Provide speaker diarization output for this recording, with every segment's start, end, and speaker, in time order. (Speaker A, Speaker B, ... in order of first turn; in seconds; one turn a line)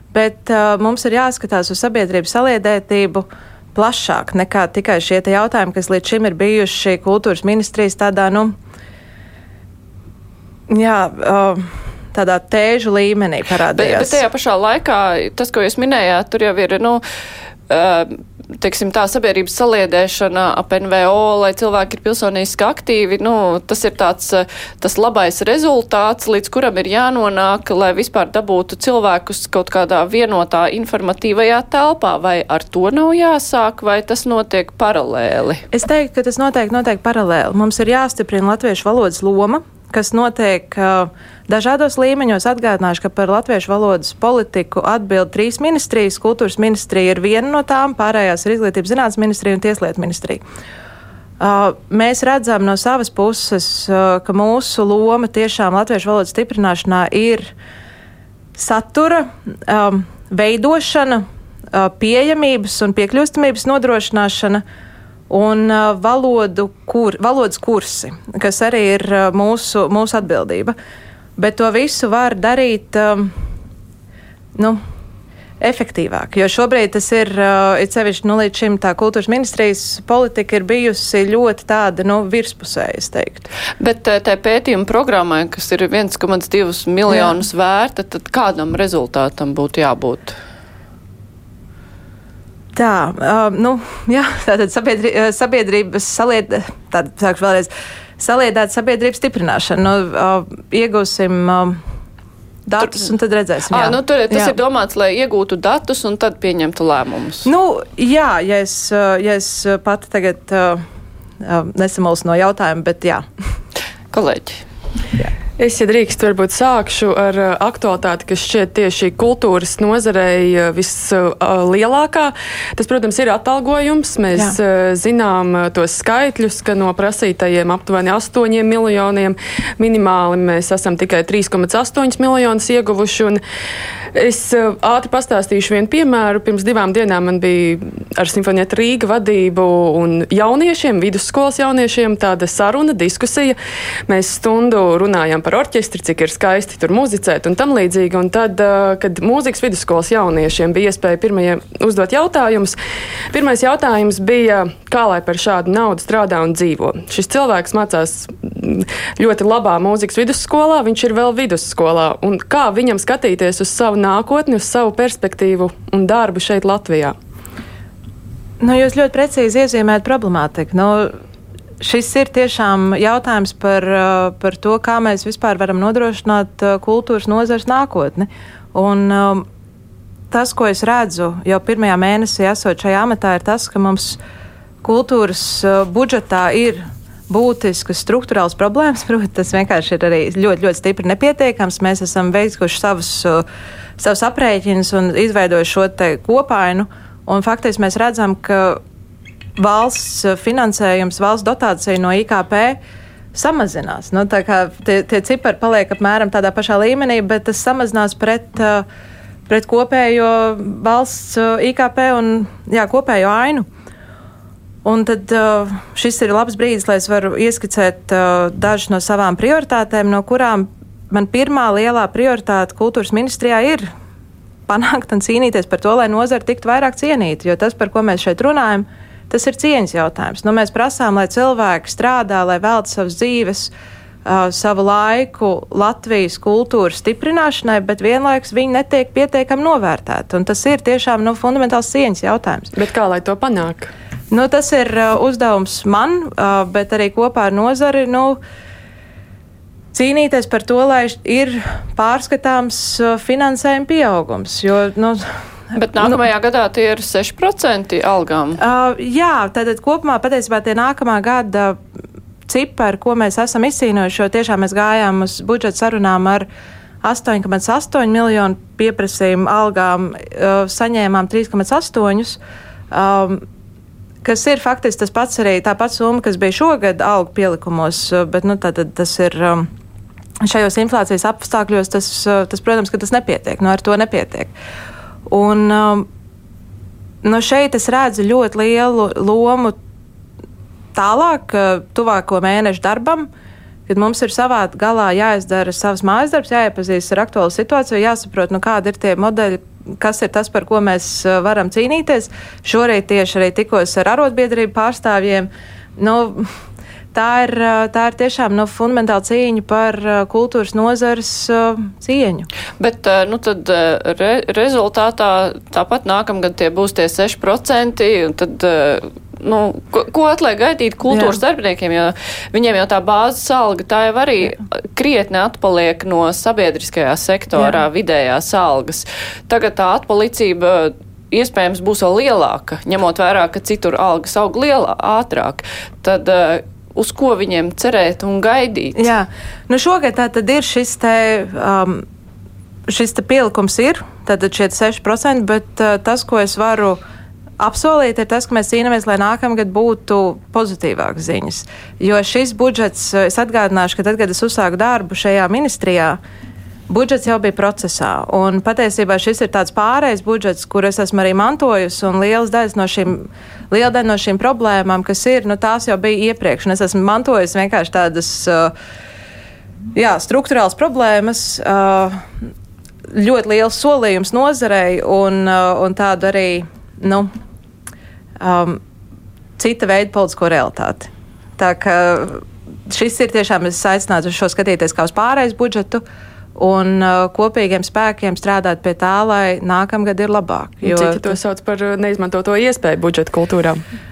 Speaker A: 0.1-8.5
Speaker A: 10.7-14.2
Speaker B: 13.8-17.0
Speaker B: 17.7-35.6
Speaker A: 35.7-50.4
Speaker A: 51.4-57.5
Speaker A: 58.5-64.6
Speaker A: 65.3-70.7
Speaker A: 71.4-73.3
Speaker A: 75.6-83.5
Speaker B: 83.8-90.3
Speaker A: 87.1-87.4
Speaker A: 92.7-101.8
Speaker A: 102.7-104.5
Speaker B: 103.7-107.5
Speaker A: 107.4-110.8
Speaker A: 111.4-113.2
Speaker B: 114.1-114.6
Speaker C: 115.6-133.4
Speaker C: 134.1-143.6
Speaker C: 144.1-152.8
Speaker C: 153.3-167.2
Speaker A: 168.6-171.1
Speaker A: 171.8-179.4
Speaker A: 180.3-184.2
Speaker A: 184.8-193.4
Speaker A: 194.0-198.8
Speaker A: 199.6-202.8
Speaker A: 203.3-208.8
Speaker A: 209.5-213.7
Speaker A: 214.8-223.9
Speaker A: 224.7-233.7
Speaker A: 234.2-242.7
Speaker C: 242.7-243.9
Speaker A: 244.3-248.4
Speaker A: 249.9-256.2
Speaker B: 255.7-258.6
Speaker A: 258.6-261.8
Speaker A: 262.5-266.5
Speaker A: 267.0-272.4
Speaker A: 272.9-273.4
Speaker A: 274.2-279.7
Speaker A: 280.4-284.5
Speaker A: 285.3-286.1
Speaker A: 287.2-289.8
Speaker A: 290.9-293.3
Speaker A: 293.9-306.5
Speaker A: 307.1-312.5
Speaker B: 312.8-339.1
Speaker A: 321.1-321.4
Speaker A: 338.9-342.0
Speaker A: 342.9-347.0
Speaker A: 347.6-356.2
Speaker A: 356.9-368.7
Speaker A: 369.9-372.2
Speaker A: 373.1-377.3
Speaker A: 378.4-378.8
Speaker A: 379.6-386.0
Speaker A: 386.6-391.4
Speaker C: 390.8-393.8